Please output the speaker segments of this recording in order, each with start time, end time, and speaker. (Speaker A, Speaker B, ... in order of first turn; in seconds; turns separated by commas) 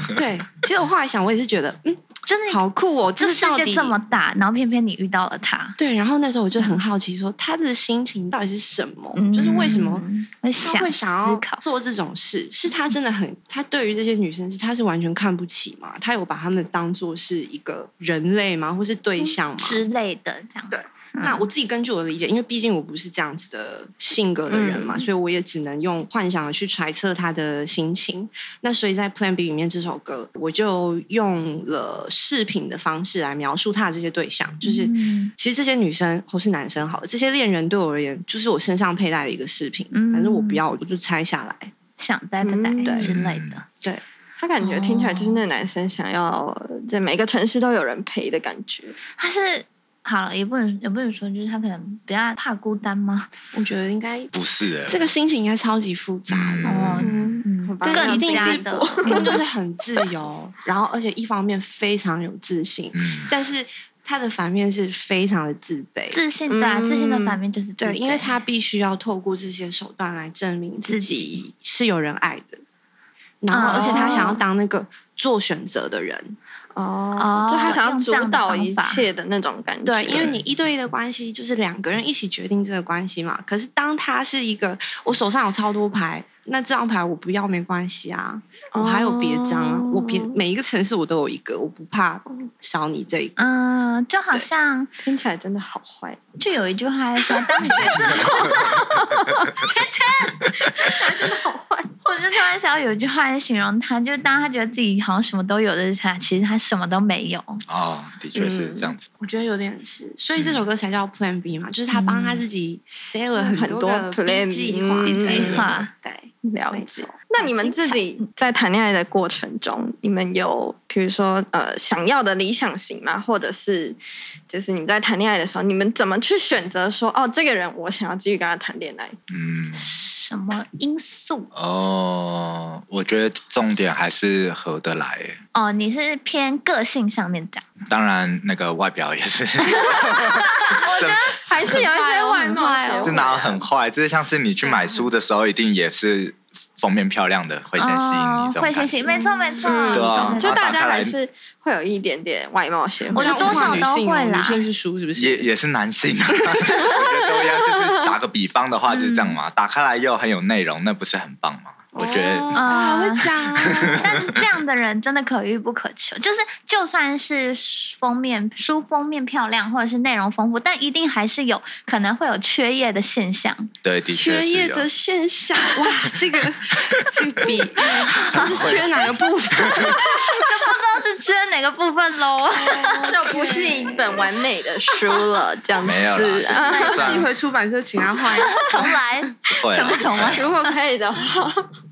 Speaker A: 0.1-4.0, Speaker B: 2.3-2.6, Speaker B: 3.1-5.8, Speaker A: 5.8-10.1, Speaker B: 9.1-11.6, Speaker A: 10.6-19.8, Speaker B: 19.6-21.4, Speaker A: 20.7-41.7, Speaker C: 24.5-25.1, Speaker B: 34.6-35.3, Speaker B: 39.9-40.6, Speaker B: 42.0-43.6, Speaker C: 42.4-43.0, Speaker A: 42.8-43.1, Speaker D: 43.0-43.6, Speaker C: 44.4-49.0, Speaker B: 44.6-45.4, Speaker B: 49.2-53.3, Speaker A: 53.5-54.3, Speaker D: 54.3-55.0, Speaker A: 54.9-66.2, Speaker D: 56.3-57.1, Speaker B: 56.6-59.4, Speaker C: 56.9-59.4, Speaker D: 62.9-63.3, Speaker B: 66.1-68.3, Speaker C: 66.5-67.4, Speaker A: 67.8-72.6, Speaker B: 70.8-71.4, Speaker A: 73.4-76.4, Speaker B: 73.5-74.4, Speaker C: 73.7-74.4, Speaker C: 76.7-80.3, Speaker B: 77.2-79.0, Speaker A: 79.8-93.4, Speaker D: 80.1-80.4, Speaker C: 88.7-90.4, Speaker B: 93.4-94.9, Speaker C: 95.0-96.2, Speaker B: 96.4-98.8, Speaker C: 97.3-99.7, Speaker B: 99.6-101.2, Speaker C: 100.6-101.9, Speaker B: 102.0-107.6, Speaker D: 107.7-109.1, Speaker C: 108.3-108.9, Speaker A: 109.2-117.1, Speaker B: 111.9-112.4, Speaker C: 113.3-115.7, Speaker B: 115.0-115.9, Speaker C: 116.4-129.2, Speaker B: 117.4-118.2, Speaker D: 129.3-129.9, Speaker B: 129.7-131.5, Speaker D: 131.5-135.4, Speaker B: 135.5-137.6, Speaker D: 137.9-141.4, Speaker C: 140.2-143.2, Speaker B: 140.7-141.4, Speaker A: 141.6-143.6, Speaker D: 143.0-149.2, Speaker B: 144.6-145.0, Speaker B: 147.8-150.6, Speaker C: 149.6-153.8, Speaker A: 149.8-150.2, Speaker D: 149.9-151.1, Speaker B: 153.1-154.6, Speaker A: 153.1-155.5, Speaker D: 153.5-153.8, Speaker D: 155.2-162.6, Speaker C: 157.4-157.8, Speaker B: 158.9-159.4, Speaker A: 161.9-164.1, Speaker B: 162.5-163.3, Speaker D: 163.5-164.2, Speaker B: 163.9-173.7, Speaker D: 173.8-174.8, Speaker A: 174.1-180.4, Speaker D: 178.1-179.9, Speaker B: 179.9-183.7, Speaker A: 182.5-184.3, Speaker C: 182.9-187.3, Speaker D: 185.8-187.3, Speaker A: 186.2-188.9, Speaker B: 188.3-190.7, Speaker D: 189.5-190.4, Speaker C: 190.3-191.7